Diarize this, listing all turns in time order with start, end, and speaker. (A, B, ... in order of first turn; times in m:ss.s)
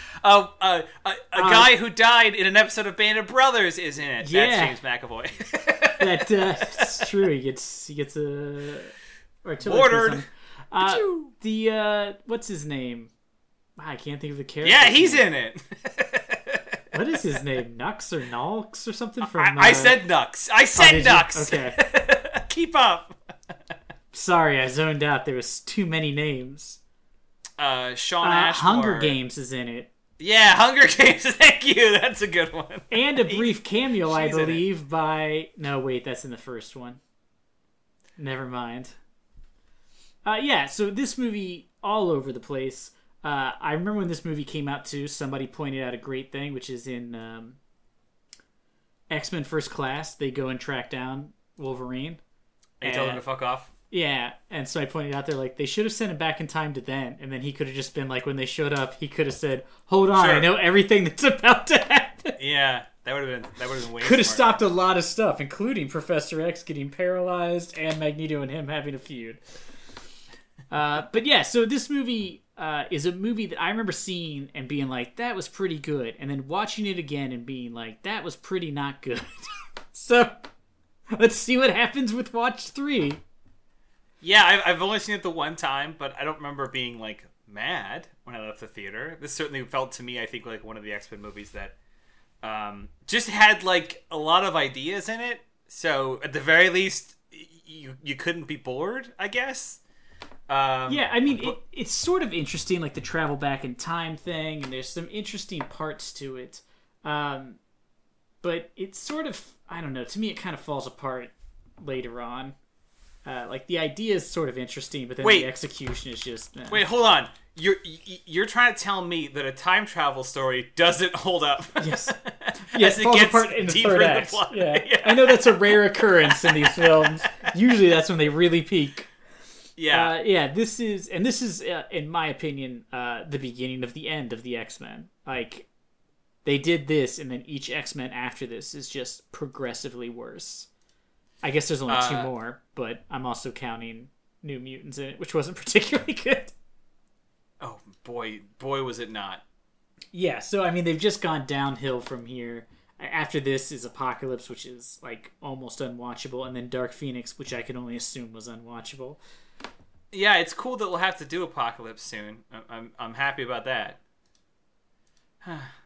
0:00.2-0:07.1 A
0:01.4-0:01.7 B
0:04.2-0:04.8 B
0:06.0-0:13.1 B
0:09.6-0:10.3 A
0:10.8-0:11.3 A
0:13.8-0:15.3 B
0:14.6-0:16.8 A
0:16.9-0:20.0 B
0:19.2-0:23.2 A
0:20.8-0:21.8 B
0:24.1-0:26.8 B
0:27.6-0:29.2 A
0:28.2-0:29.9 B
0:30.2-0:34.6 A
0:32.9-0:37.0 B
0:38.2-0:39.0 B
0:40.2-0:47.6 B
0:49.1-0:52.2 B
0:52.8-0:53.7 A
0:52.8-0:53.2 B
0:53.9-1:02.4 B
1:00.2-1:00.5 A
1:02.4-1:04.6 A
1:04.0-1:09.6 B
1:10.7-1:20.4 B
1:21.2-1:23.2 B
1:24.2-1:31.8 A
1:32.4-1:39.8 A
1:40.5-1:41.6 A
1:40.9-1:47.6 B
1:48.4-1:52.6 B
1:53.2-1:56.8 B
1:55.2-1:55.5 A
1:56.7-2:07.3 A
2:01.8-2:09.1 B
2:09.8-2:10.2 A
2:09.9-2:15.7 B
2:16.4-2:20.7 B
2:21.4-2:26.6 B
2:21.9-2:22.3 A
2:27.6-2:29.4 A
2:30.1-2:39.2 B
2:40.1-2:44.0 A
2:45.4-2:45.7 A